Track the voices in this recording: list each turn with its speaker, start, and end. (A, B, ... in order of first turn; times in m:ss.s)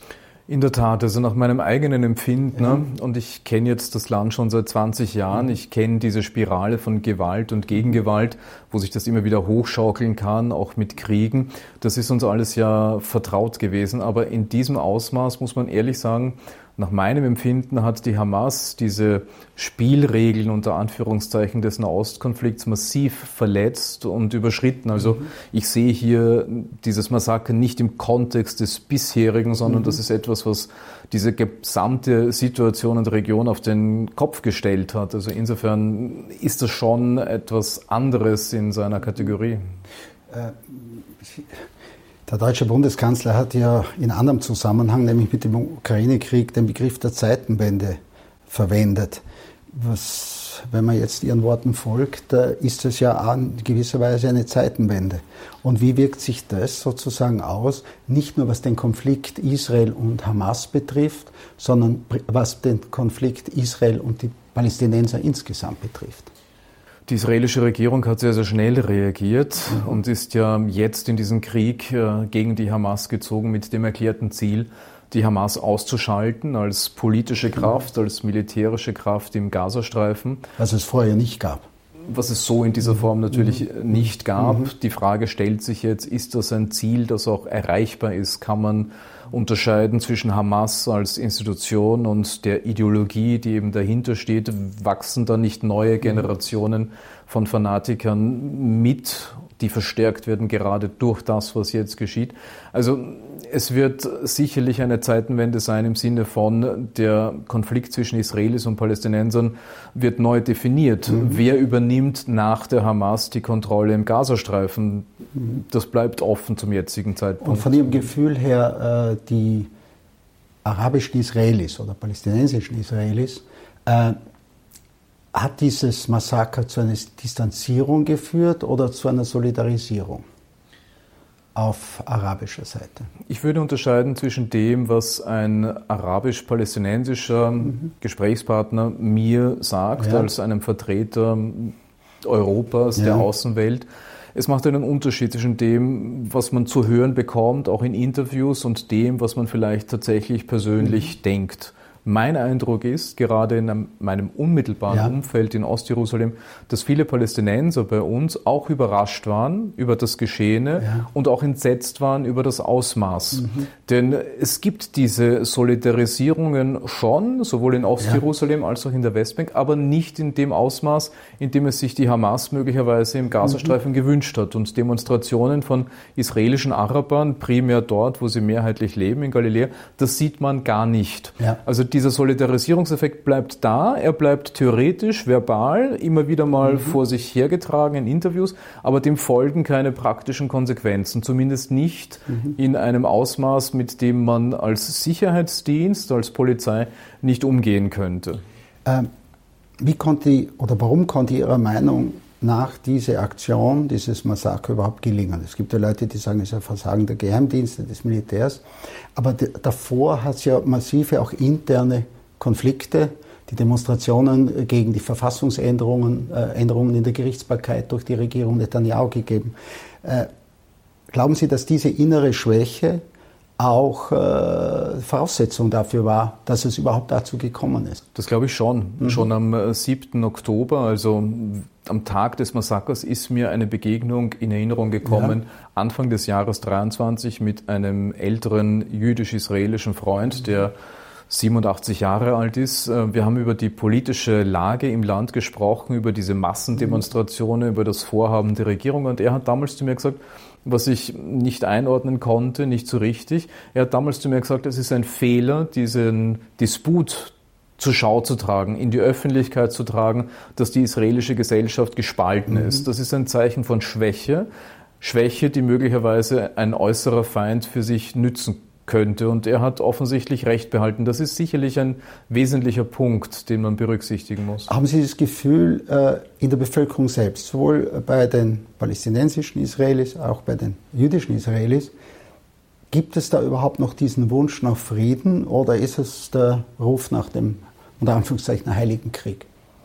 0:00.5-0:39.7 A
0:40.3-0:41.6 B
0:42.3-1:06.3 B
1:07.1-1:20.4 A
1:20.6-1:21.6 B
1:22.1-1:58.0 A
1:24.4-1:24.7 B
1:51.1-1:51.4 B
1:57.4-1:59.7 B
2:00.6-2:04.2 B
2:05.3-2:10.2 B
2:11.5-2:13.1 B
2:13.3-3:18.4 A
2:20.0-2:20.3 B
2:23.0-2:23.2 B
3:19.8-3:28.6 B
3:29.1-3:40.3 B
3:41.1-3:43.0 B
3:43.6-3:48.0 B
3:48.1-4:00.7 A
3:55.0-3:55.3 B
4:01.3-4:24.5 A
4:25.0-4:34.7 A
4:34.7-4:41.9 B
4:42.9-4:49.5 B